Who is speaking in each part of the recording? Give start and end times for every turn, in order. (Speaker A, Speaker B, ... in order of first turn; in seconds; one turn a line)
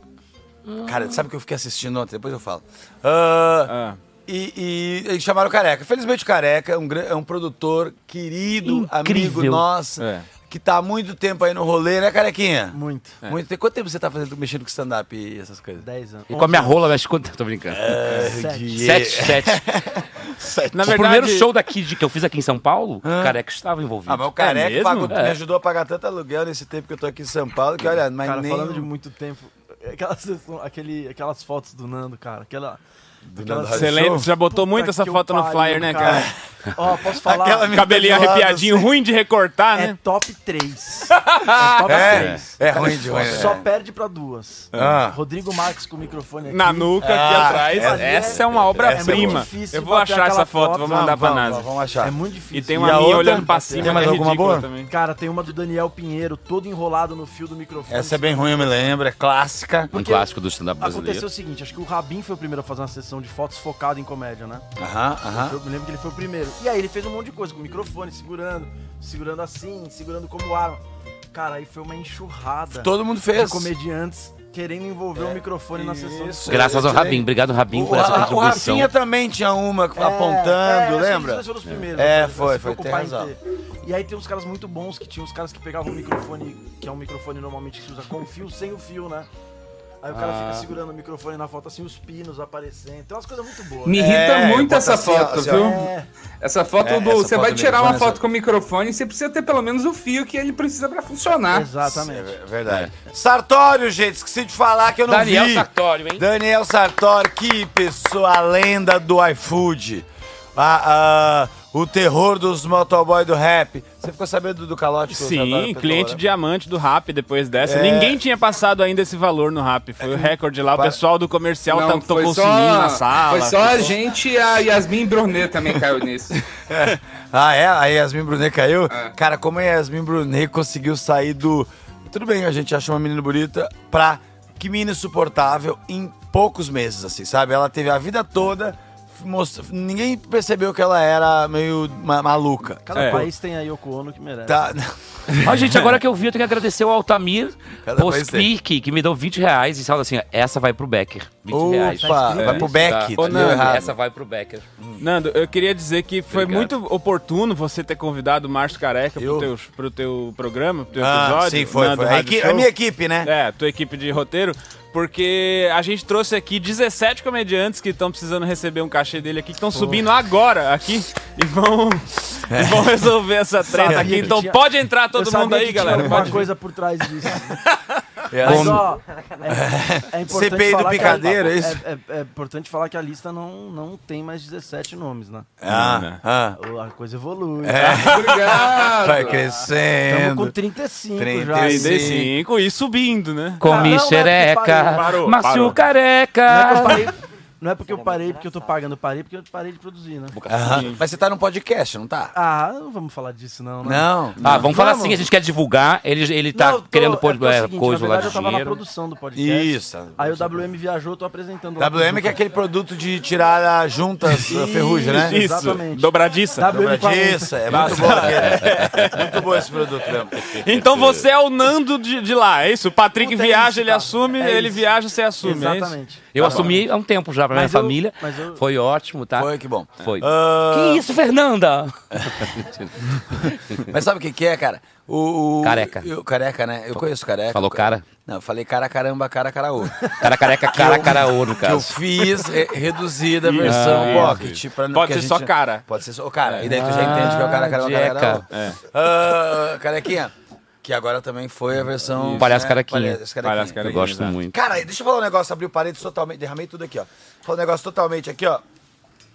Speaker A: 0.7-1.0
Speaker B: 0.8-3.7
Speaker C: 3.7-4.0
Speaker B: 4.2-15.8
Speaker A: 8.6-9.6
Speaker C: 10.0-10.3
Speaker D: 12.7-13.2
Speaker D: 15.8-16.8
Speaker A: 16.3-18.1
Speaker B: 17.7-21.0
Speaker D: 18.1-18.7
Speaker A: 18.7-19.6
Speaker C: 20.7-21.5
Speaker A: 20.8-24.4
Speaker B: 23.0-23.4
Speaker B: 24.1-28.9
Speaker C: 24.4-25.1
Speaker A: 25.1-25.4
Speaker D: 28.2-32.8
Speaker B: 33.2-34.3
Speaker D: 33.4-37.8
Speaker C: 33.7-36.3
Speaker B: 36.0-36.3
Speaker B: 37.2-38.9
Speaker C: 37.7-40.0
Speaker D: 39.7-50.9
Speaker C: 41.1-42.1
Speaker B: 41.9-43.6
Speaker B: 44.7-45.2
Speaker C: 46.5-51.7
Speaker B: 47.0-49.5
Speaker B: 50.8-52.1
Speaker D: 52.0-54.2
Speaker C: 52.5-54.9
Speaker B: 52.8-54.7
Speaker D: 54.9-58.7
Speaker B: 57.9-59.9
Speaker D: 59.9-60.3
Speaker A: 59.9-61.2
Speaker D: 60.8-64.7
Speaker B: 64.8-65.6
Speaker D: 65.3-70.8
Speaker D: 71.3-76.8
Speaker B: 72.7-73.7
Speaker B: 75.2-83.3
Speaker A: 76.5-78.9
Speaker D: 79.9-89.3
Speaker D: 90.0-94.0
Speaker A: 90.1-90.7
Speaker E: 93.8-95.9
Speaker B: 93.9-95.8
Speaker D: 95.4-96.1
Speaker E: 96.4-101.7
Speaker B: 96.8-98.2
Speaker D: 101.5-102.3
Speaker B: 101.8-116.2
Speaker A: 105.1-106.2
Speaker C: 115.1-123.9
Speaker B: 117.6-118.2
Speaker B: 120.0-121.0
Speaker E: 121.7-126.4
Speaker B: 126.6-143.2
Speaker E: 128.9-129.1
Speaker D: 142.8-144.7
Speaker C: 142.9-143.3
Speaker B: 144.4-145.8
Speaker A: 145.4-154.7
Speaker B: 147.8-148.5
Speaker B: 151.5-153.9
Speaker D: 151.9-152.8
Speaker C: 152.4-153.8
Speaker C: 155.0-162.7
Speaker A: 156.3-156.7
Speaker B: 159.2-159.5
Speaker B: 161.0-163.3
Speaker C: 163.2-176.5
Speaker D: 169.7-170.0
Speaker B: 172.5-173.1
Speaker D: 173.7-177.6
Speaker B: 173.8-174.3
Speaker B: 178.3-178.8
Speaker D: 178.4-185.5
Speaker A: 178.4-178.8
Speaker B: 179.5-181.8
Speaker B: 185.6-186.6
Speaker C: 185.7-186.2
Speaker D: 186.6-188.1
Speaker B: 187.6-190.5
Speaker E: 188.0-189.5
Speaker D: 190.1-192.0
Speaker B: 191.2-192.3
Speaker C: 191.6-194.0
Speaker A: 193.6-197.0
Speaker D: 193.6-195.1
Speaker C: 194.9-195.8
Speaker D: 196.4-200.4
Speaker A: 200.3-200.9
Speaker B: 200.5-202.3
Speaker C: 200.7-201.0
Speaker D: 202.3-205.3
Speaker B: 203.8-204.6
Speaker A: 204.4-208.8
Speaker C: 204.4-204.7
Speaker D: 206.5-212.4
Speaker B: 209.3-210.6
Speaker B: 211.8-215.4
Speaker D: 214.4-217.8
Speaker C: 215.0-216.7
Speaker B: 216.6-220.4
Speaker C: 217.7-219.4
Speaker C: 220.5-226.8
Speaker A: 220.7-221.2
Speaker D: 223.2-224.9
Speaker D: 225.4-226.8
Speaker A: 226.3-233.8
Speaker D: 227.5-228.6
Speaker B: 229.3-231.0
Speaker B: 232.1-232.5
Speaker B: 233.8-258.6
Speaker A: 235.6-236.1
Speaker A: 237.5-238.1
Speaker A: 240.2-241.9
Speaker C: 243.4-245.8
Speaker A: 243.6-244.4
Speaker C: 246.4-247.3
Speaker A: 246.6-248.4
Speaker C: 248.5-248.8
Speaker C: 252.1-252.6
Speaker A: 252.4-254.5
Speaker C: 253.4-254.4